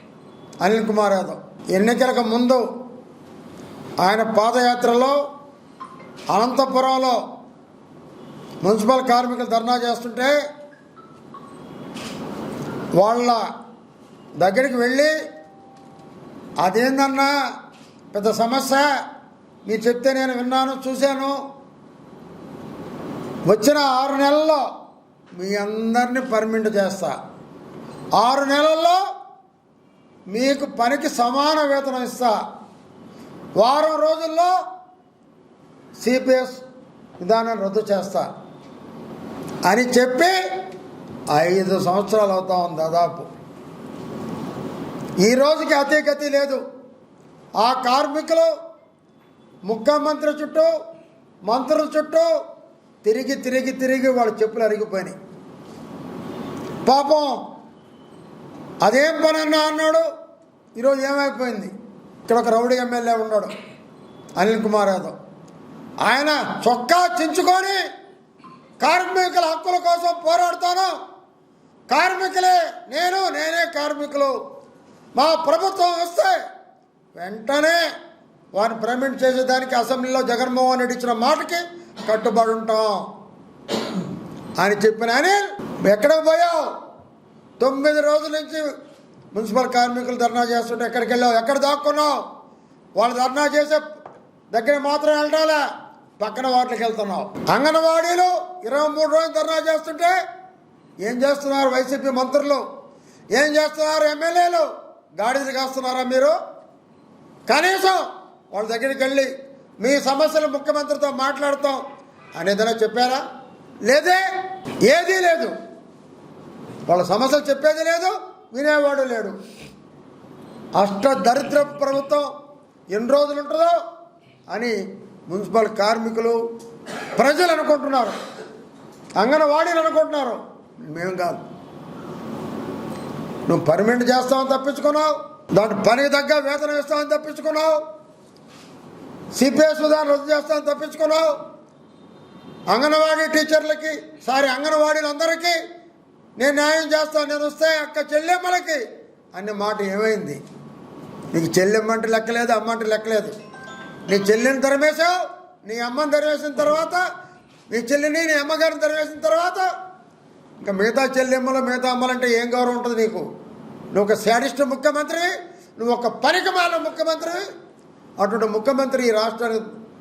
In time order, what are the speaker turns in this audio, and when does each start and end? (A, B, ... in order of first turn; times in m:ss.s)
0:00.6-0:02.7 A
0:04.0-0:05.2 A
0:06.3-0:07.2 A
0:08.6-0:10.4 A
0:13.0-0:13.4 A
0:14.4-0:15.2 A
0:16.6-0:17.3 A
0:18.1-0:18.9 A
0:19.6-0:21.4 A
0:23.5-0:24.7 A
0:25.4-0:27.2 A
0:28.2-0:29.0 A
0:30.3-0:32.4 A
0:33.6-0:34.5 A
0:36.0-0:36.6 A
0:37.2-0:38.3 A
0:39.6-0:40.4 A
0:41.3-0:43.3 A
0:45.2-0:46.6 A
0:47.6-0:48.5 A
0:49.7-0:50.7 A
0:51.5-0:52.3 A
0:53.0-0:55.2 A
0:56.8-0:57.4 A
0:58.8-1:00.1 A
1:00.8-1:01.7 A
1:02.3-1:03.5 A
1:04.4-1:05.2 A
1:06.0-1:07.8 A
1:08.8-1:11.0 A
1:11.9-1:14.4 A
1:15.2-1:16.4 A
1:17.2-1:17.8 A
1:18.6-1:23.1 A
1:24.6-1:26.8 A
1:27.6-1:28.7 A
1:29.3-1:32.2 A
1:33.0-1:33.8 A
1:34.5-1:35.6 A
1:36.2-1:40.2 A
1:41.0-1:42.6 A
1:43.3-1:46.4 A
1:47.5-1:51.8 A
1:52.4-1:53.2 A
1:53.8-1:54.2 A
1:54.8-1:55.6 A
1:56.9-1:59.4 A
2:00.8-2:02.3 A
2:02.9-2:03.8 A
2:04.5-2:06.4 A
2:07.2-2:08.2 A
2:09.2-2:11.4 A
2:13.5-2:17.8 A
2:19.4-2:21.4 A
2:22.7-2:25.6 A
2:26.4-2:30.4 A
2:31.3-2:33.4 A
2:34.1-2:37.0 A
2:37.7-2:39.7 A
2:40.6-2:43.3 A
2:43.9-2:47.5 A
2:48.2-2:49.7 A